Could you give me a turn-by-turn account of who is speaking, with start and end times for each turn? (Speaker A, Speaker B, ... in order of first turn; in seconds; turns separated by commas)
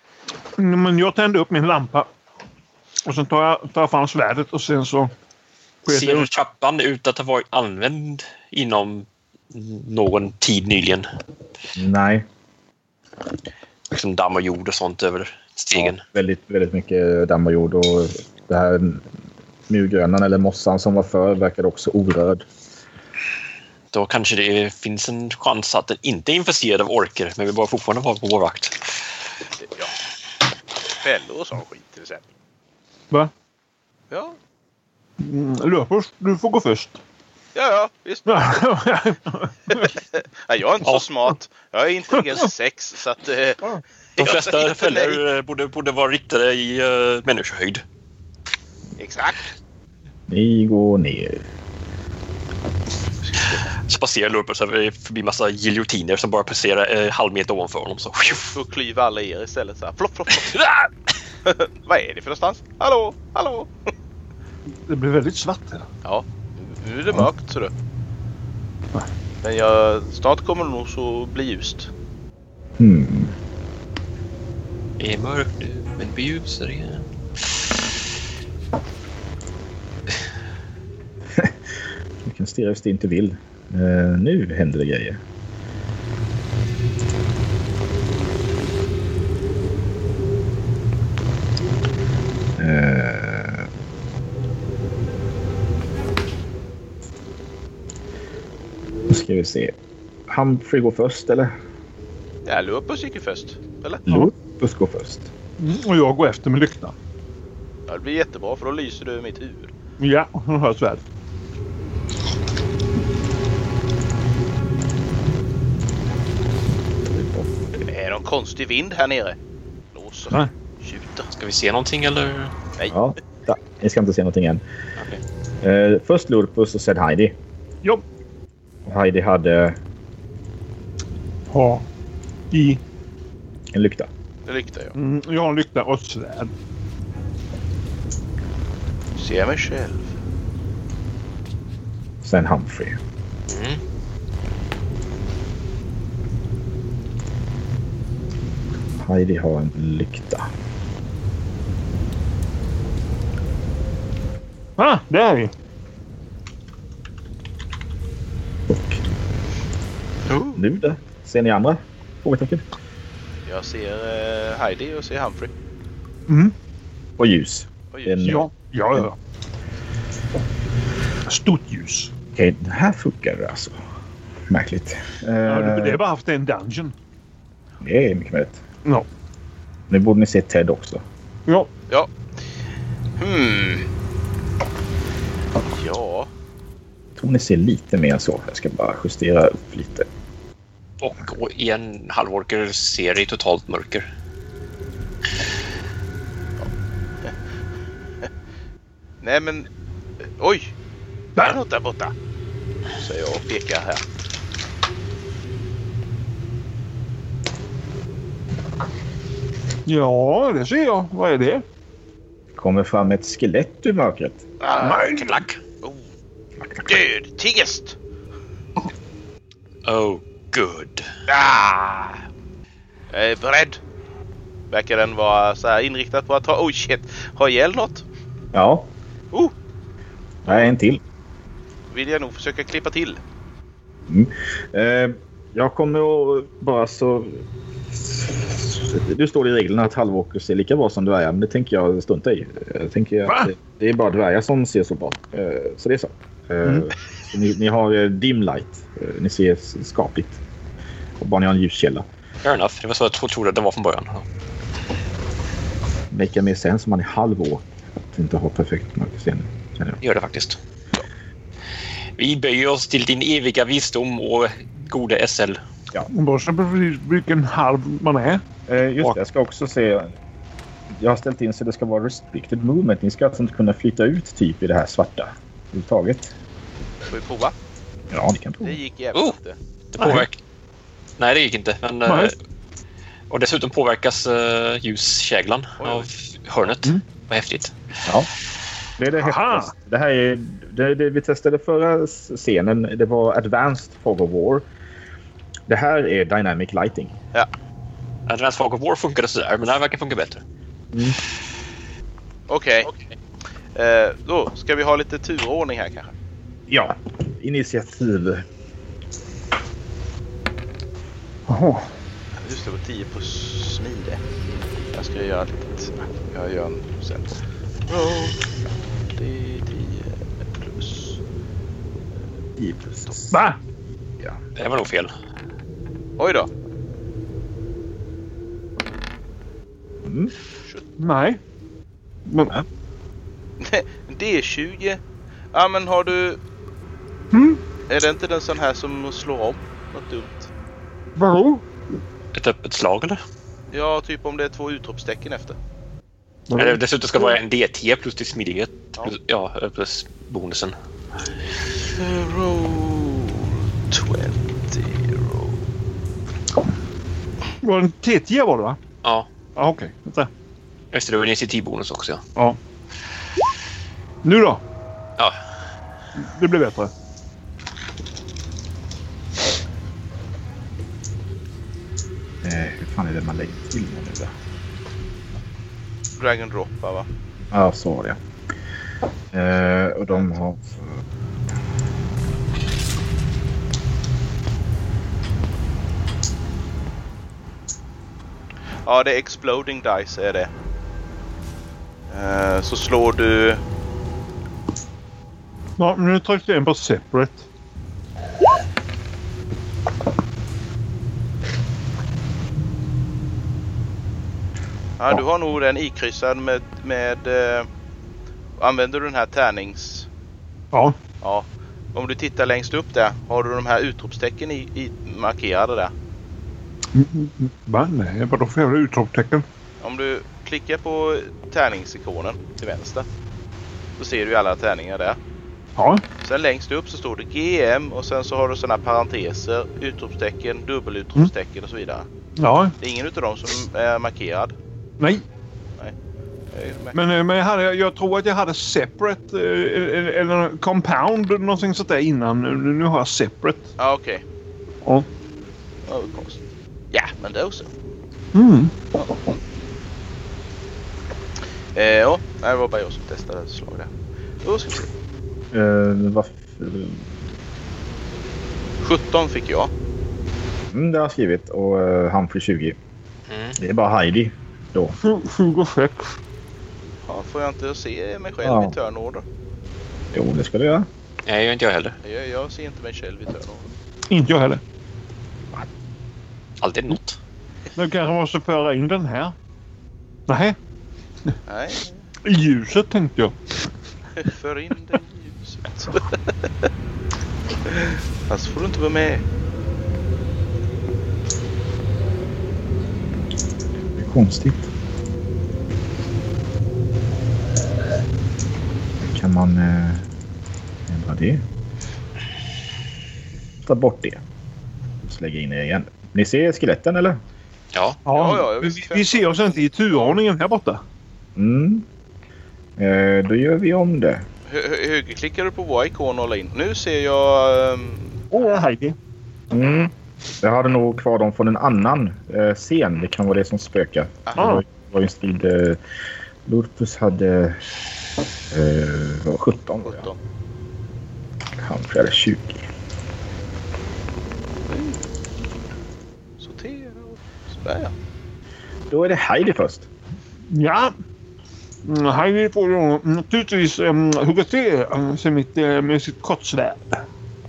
Speaker A: 0.6-2.1, Speaker A: 3.0-5.1, Speaker A: 5.8-6.3, Speaker B: 5.9-11.1, Speaker C: 11.8-12.3, Speaker B: 13.9-16.0, Speaker C: 15.7-19.1, Speaker C: 19.7-22.4, Speaker B: 23.9-29.0, Speaker D: 29.6-29.9, Speaker D: 31.0-32.3, Speaker D: 34.1-34.4, Speaker A: 35.2-37.0, Speaker D: 37.5-38.6, Speaker A: 38.3-40.0, Speaker D: 39.8-43.6, Speaker D: 44.2-45.2, Speaker B: 44.2-47.8, Speaker D: 49.0-49.4, Speaker C: 50.3-51.5, Speaker D: 53.3-53.6, Speaker B: 53.9-58.5, Speaker D: 58.3-60.6, Speaker D: 61.5-63.7, Speaker A: 64.9-65.9, Speaker D: 66.0-67.7, Speaker D: 69.4-71.9, Speaker C: 72.8-73.3, Speaker B: 75.0-77.1, Speaker C: 82.2-85.2, Speaker C: 92.6-93.7, Speaker C: 99.1-99.8, Speaker C: 100.3-101.5, Speaker D: 102.5-104.1, Speaker C: 104.1-105.3, Speaker A: 105.6-106.9, Speaker D: 107.9-109.7, Speaker A: 110.0-111.0, Speaker C: 117.0-117.5, Speaker D: 117.9-119.4, Speaker D: 119.9-121.3, Speaker B: 121.3-122.5, Speaker C: 122.9-124.6, Speaker C: 125.6-127.3, Speaker C: 128.9-129.8, Speaker A: 131.5-131.8, Speaker A: 132.5-132.8, Speaker C: 133.7-134.1, Speaker D: 134.5-134.9, Speaker A: 134.9-136.5, Speaker D: 139.2-140.2, Speaker C: 142.2-143.0, Speaker B: 143.5-143.8, Speaker C: 149.0-150.5, Speaker A: 154.8-155.5, Speaker C: 158.7-159.0, Speaker D: 160.3-160.6, Speaker C: 160.6-162.6, Speaker D: 163.5-165.5, Speaker A: 166.3-166.6, Speaker C: 167.2-169.1, Speaker D: 167.9-168.4, Speaker A: 168.2-169.2, Speaker A: 171.3-172.1, Speaker C: 172.4-173.8, Speaker C: 174.5-176.0, Speaker A: 175.5-176.9, Speaker C: 177.8-178.6, Speaker C: 179.9-181.0, Speaker D: 183.2-183.9, Speaker D: 185.7-186.3, Speaker C: 187.2-190.1, Speaker B: 191.0-194.1, Speaker D: 199.2-199.7, Speaker D: 200.4-200.7, Speaker D: 201.4-202.1, Speaker D: 203.0-204.0, Speaker A: 209.9-211.7, Speaker C: 212.6-214.4, Speaker D: 214.6-216.1, Speaker A: 214.8-215.4, Speaker B: 215.2-215.6, Speaker C: 216.6-217.0, Speaker D: 216.9-218.0, Speaker B: 219.8-221.1, Speaker D: 221.3-222.2, Speaker D: 223.1-223.8, Speaker D: 224.7-228.1, Speaker C: 228.5-228.9, Speaker C: 230.4-231.0, Speaker D: 230.5-230.8, Speaker D: 231.9-233.2, Speaker C: 234.1-250.4, Speaker A: 246.6-246.9, Speaker C: 251.2-252.1, Speaker B: 252.4-254.2, Speaker C: 256.1-260.0, Speaker B: 260.0-260.6, Speaker B: 262.2-265.6, Speaker A: 266.1-268.4, Speaker C: 268.7-270.1, Speaker C: 270.9-276.3, Speaker D: 277.1-277.6, Speaker C: 278.1-278.8, Speaker D: 278.6-279.6, Speaker B: 279.9-280.4, Speaker A: 280.0-280.3, Speaker B: 281.2-282.4, Speaker A: 282.1-282.3, Speaker B: 283.3-287.7, Speaker D: 285.8-286.1, Speaker C: 288.1-288.3, Speaker C: 289.0-294.7, Speaker A: 289.2-289.7, Speaker C: 295.7-297.1, Speaker B: 298.3-300.4, Speaker D: 302.5-302.9, Speaker D: 303.8-306.1, Speaker C: 306.7-308.4, Speaker A: 311.5-311.9, Speaker D: 312.4-314.2, Speaker D: 314.9-317.3, Speaker D: 317.9-321.2, Speaker C: 322.6-323.4, Speaker A: 323.3-323.6, Speaker B: 324.6-325.1, Speaker D: 326.2-326.5, Speaker C: 330.1-330.3, Speaker A: 331.0-331.4, Speaker A: 332.3-332.6, Speaker D: 333.6-335.0, Speaker D: 335.5-336.4, Speaker A: 337.3-337.6, Speaker D: 337.9-340.5, Speaker A: 341.2-341.6, Speaker B: 342.3-343.2, Speaker D: 343.7-345.6, Speaker A: 346.5-347.4, Speaker B: 346.6-350.8, Speaker D: 351.9-355.6, Speaker A: 357.6-358.8, Speaker B: 359.0-359.3, Speaker A: 359.6-360.3, Speaker B: 360.9-362.2, Speaker A: 364.2-364.6, Speaker A: 366.2-366.9, Speaker C: 372.4-374.3, Speaker D: 376.2-377.1, Speaker C: 377.5-378.2, Speaker C: 379.3-381.0, Speaker D: 380.1-380.4, Speaker D: 388.8-390.5, Speaker D: 392.1-393.6, Speaker A: 395.8-397.4, Speaker D: 405.0-407.7, Speaker D: 408.6-410.1, Speaker A: 410.7-411.0, Speaker D: 411.2-415.9, Speaker A: 416.9-419.4, Speaker D: 419.8-423.1, Speaker D: 424.0-425.2, Speaker A: 425.8-426.0, Speaker D: 426.2-432.1, Speaker A: 432.4-432.8, Speaker D: 432.8-434.6, Speaker A: 435.0-435.2, Speaker D: 436.5-437.0, Speaker A: 436.9-443.7, Speaker D: 443.8-444.2, Speaker D: 445.9-446.4, Speaker D: 446.9-447.7, Speaker A: 448.3-448.7, Speaker D: 448.9-449.4, Speaker D: 451.8-453.9, Speaker D: 454.4-454.9, Speaker C: 455.5-457.1, Speaker D: 458.8-459.7, Speaker C: 460.7-462.8, Speaker B: 463.3-463.6, Speaker C: 463.6-465.0, Speaker A: 465.0-466.2, Speaker D: 467.1-469.2, Speaker C: 468.4-468.7, Speaker C: 470.1-470.9, Speaker B: 471.3-472.0, Speaker D: 472.0-473.7, Speaker A: 474.1-474.6, Speaker B: 476.6-477.2, Speaker A: 477.8-479.4, Speaker A: 480.3-480.6, Speaker D: 481.5-482.0, Speaker A: 482.2-483.4, Speaker D: 484.2-486.6, Speaker D: 487.6-489.2, Speaker C: 494.0-494.7, Speaker C: 499.0-500.1, Speaker C: 500.9-501.4, Speaker C: 503.6-504.2, Speaker C: 505.0-507.2, Speaker B: 507.7-508.0, Speaker A: 508.1-510.8, Speaker D: 508.1-510.2, Speaker C: 511.4-511.9, Speaker C: 512.8-514.2, Speaker D: 514.5-518.2, Speaker A: 518.3-519.0, Speaker C: 519.5-525.8, Speaker A: 524.4-524.6, Speaker C: 526.5-527.6, Speaker C: 528.5-530.1, Speaker D: 529.8-530.2, Speaker C: 531.6-532.6, Speaker D: 534.7-535.0, Speaker D: 536.4-537.9, Speaker C: 538.9-539.9, Speaker A: 540.5-540.9, Speaker A: 541.9-547.0